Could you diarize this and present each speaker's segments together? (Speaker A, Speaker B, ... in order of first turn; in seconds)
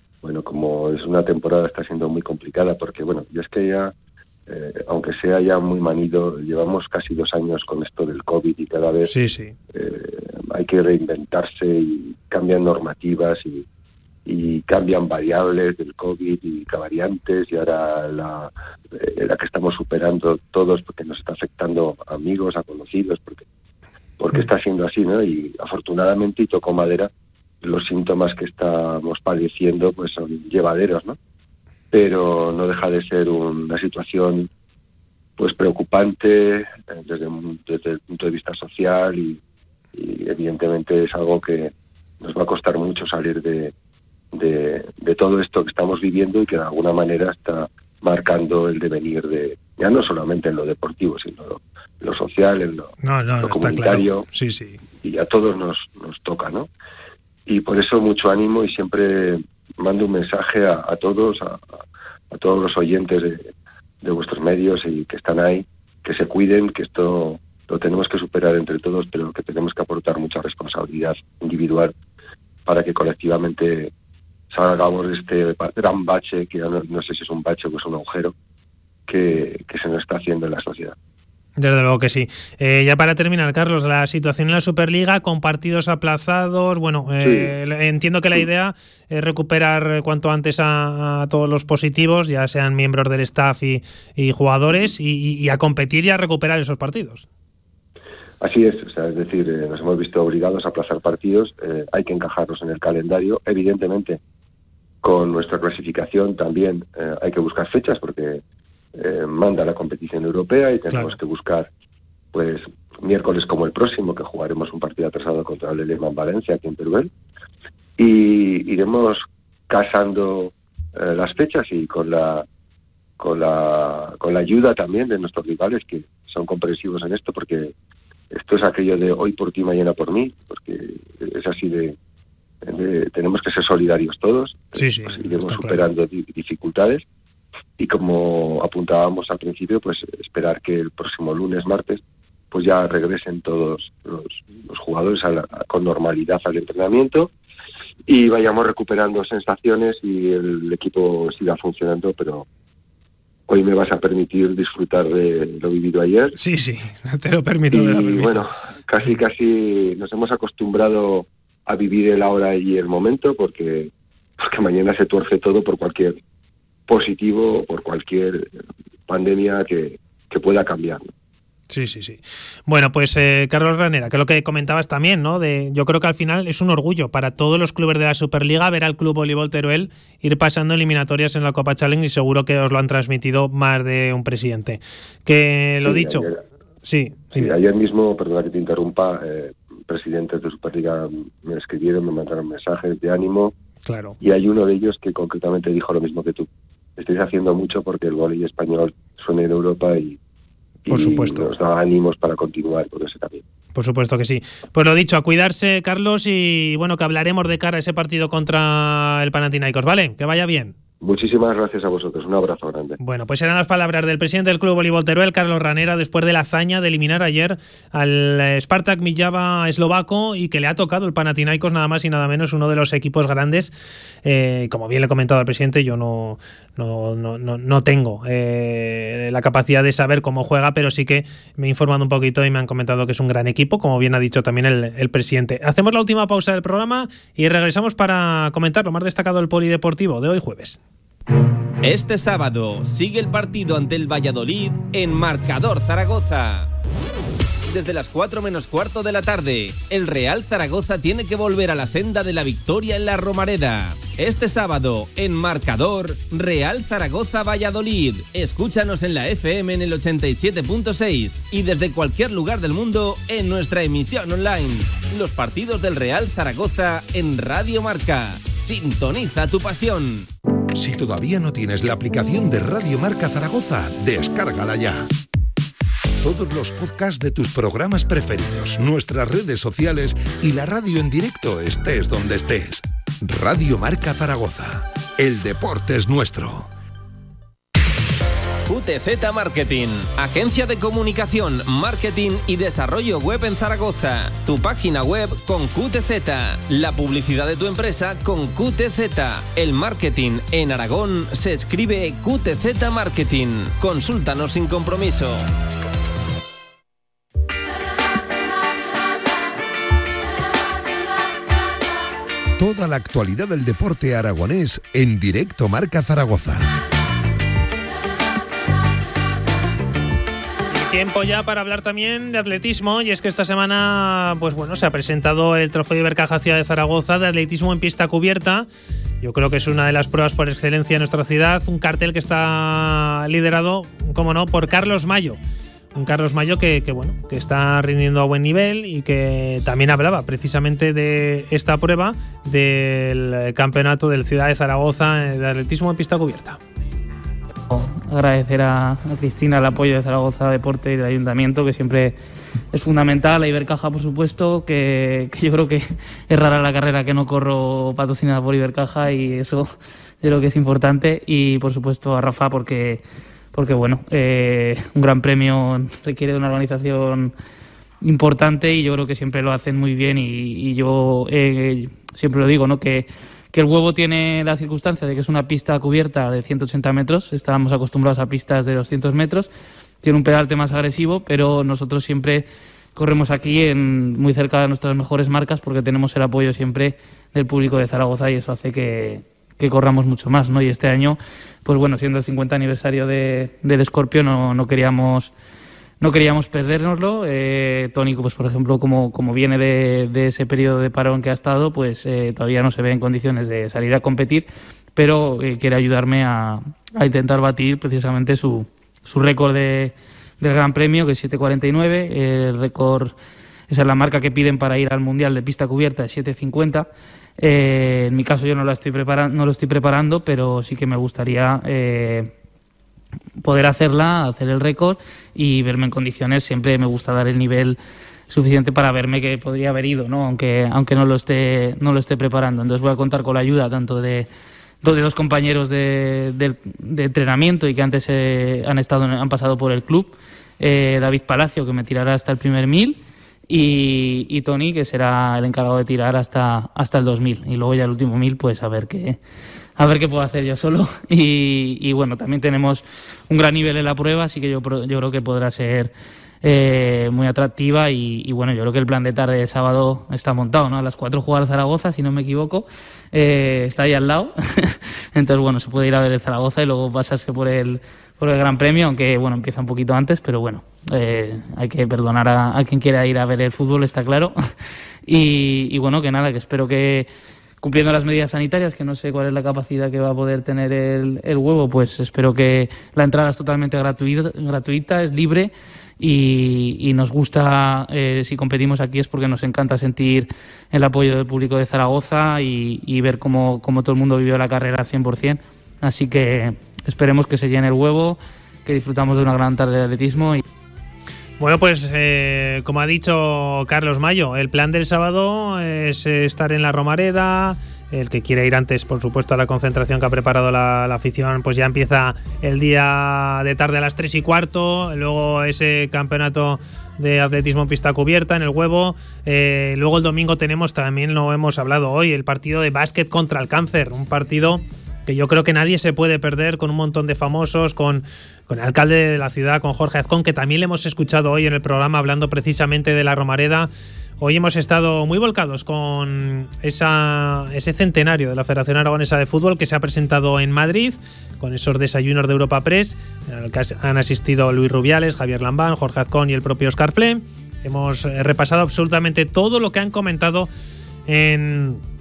Speaker A: 0.2-3.9, 4.5-9.1, 9.7-13.6, 14.2-23.4, 24.2-27.1, 27.6-31.2, 31.9-34.5, 35.4-39.4, 39.9-43.7, 44.3-54.2, 55.0-56.7, 57.5-61.7, 62.3-63.5, 64.0-71.9, 72.7-73.9, 74.5-78.3, 79.1-81.0, 87.2-87.5, 98.4-104.2, 105.0-108.4, 109.0-111.7, 112.3-117.1, 118.0-122.4, 123.2-127.7, 128.3-131.9, 132.6-137.0, 137.8-147.3, 148.1-152.4, 153.5-156.3, 157.7-166.2, 166.9-168.5, 169.1-171.1, 185.8-186.4, 187.3-193.5, 194.2-200.2, 200.8-203.4, 211.0-213.0
Speaker B: 9.1-9.5, 53.0-54.8, 81.6-97.2, 134.7-135.8, 156.3-158.4, 171.7-186.3, 186.8-187.5, 193.8-194.2, 200.9-201.5, 203.7-210.7, 213.0-240.8, 320.7-328.7, 329.2-335.4, 335.9-346.6, 501.4-550.5, 551.1-551.8
Speaker C: 241.8-246.7, 247.7-270.3, 288.7-305.4
Speaker D: 270.7-275.1, 276.2-286.7, 312.6-316.8
Speaker E: 347.7-352.2, 352.7-363.0, 363.5-367.3, 368.0-379.5, 380.0-395.3, 396.0-413.1, 413.7-416.9, 417.4-422.3, 423.4-427.8, 428.3-434.3, 434.8-443.0, 443.5-449.2, 449.8-455.9, 456.4-474.3, 475.1-477.1, 477.6-500.4